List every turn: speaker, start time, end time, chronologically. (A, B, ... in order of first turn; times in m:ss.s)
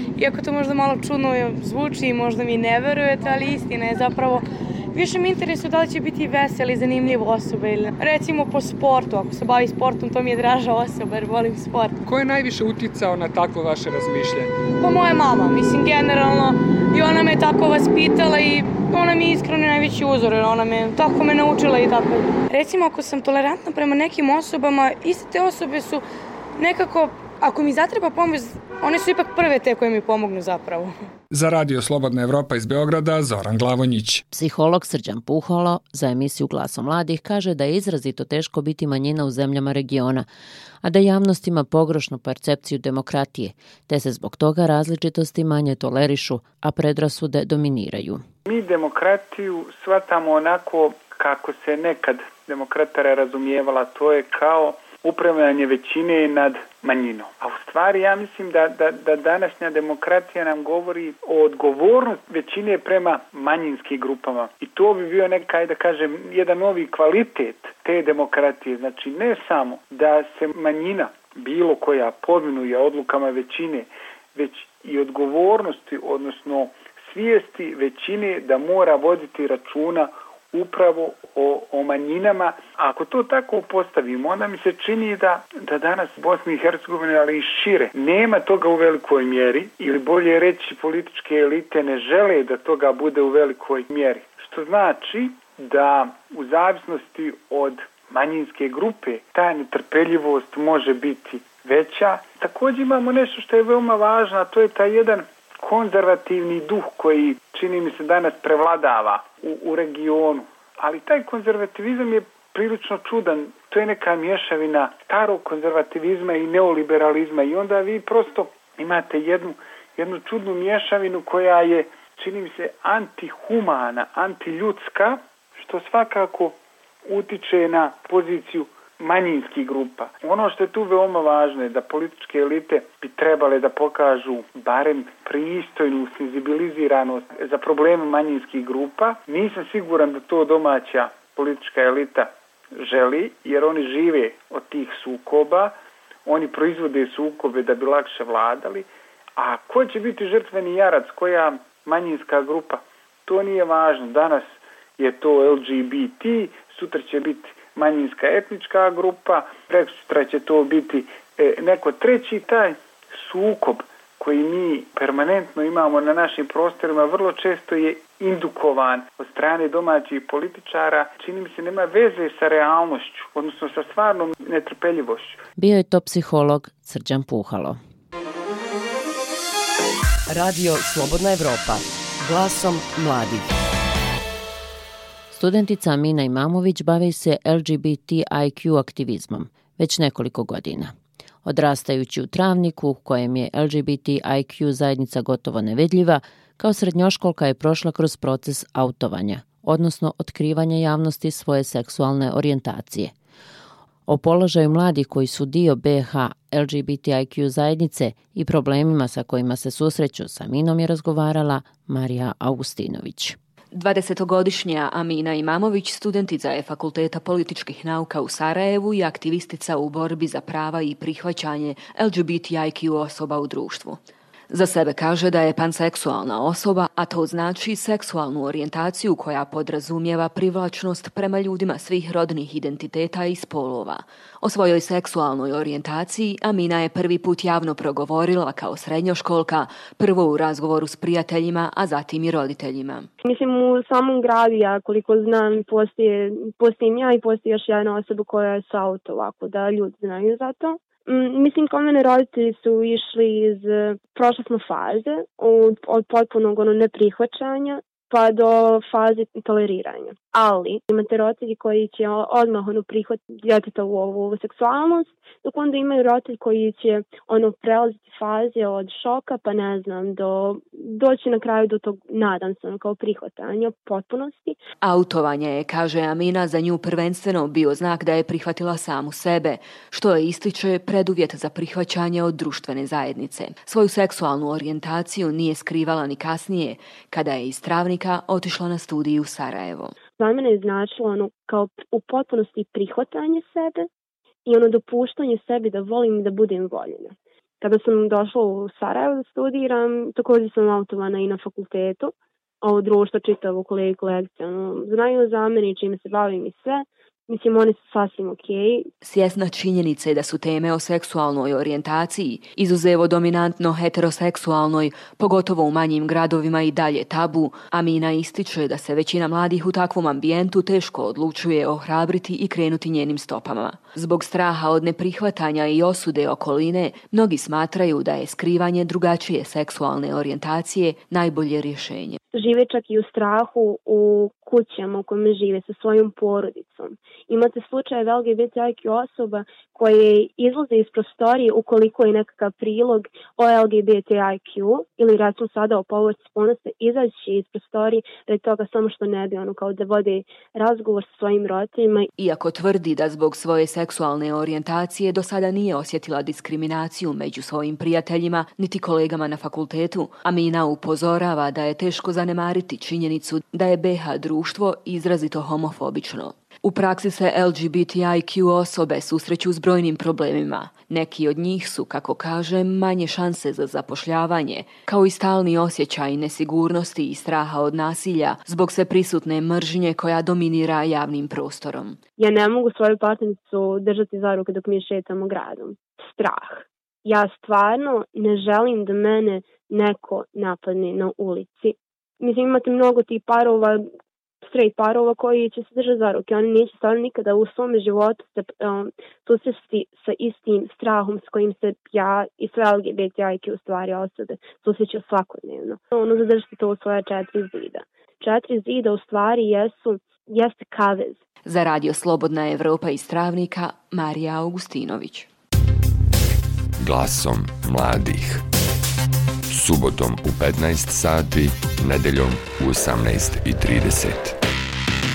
0:00.2-0:12.0 A
0:12.0-0:14.5 B
0:14.8-0:26.0 A
0:26.6-0:30.9 A
0:31.3-0:34.2 B
0:34.3-0:40.2 C
0:40.8-0:48.2 C
0:48.4-2:06.5 D
2:07.0-2:25.7 D
2:26.2-2:55.4 D
2:55.6-2:57.8 C
3:00.3-3:03.5 E
3:05.3-3:10.9 C
3:11.4-3:23.1 C
3:24.1-3:33.4 C
3:33.7-3:44.0 F
3:44.5-4:03.1 F
4:03.2-4:34.6 G
4:34.8-4:49.9 F
4:50.2-4:53.9 G
4:54.4-5:08.9 G
5:09.0-5:32.2 F
5:32.3-5:52.1 G
5:52.2-6:22.0 F
6:22.2-6:33.8 G
6:34.4-6:51.2 G
6:51.4-6:55.3 F
6:56.8-6:58.4 H
6:59.5-7:04.4 H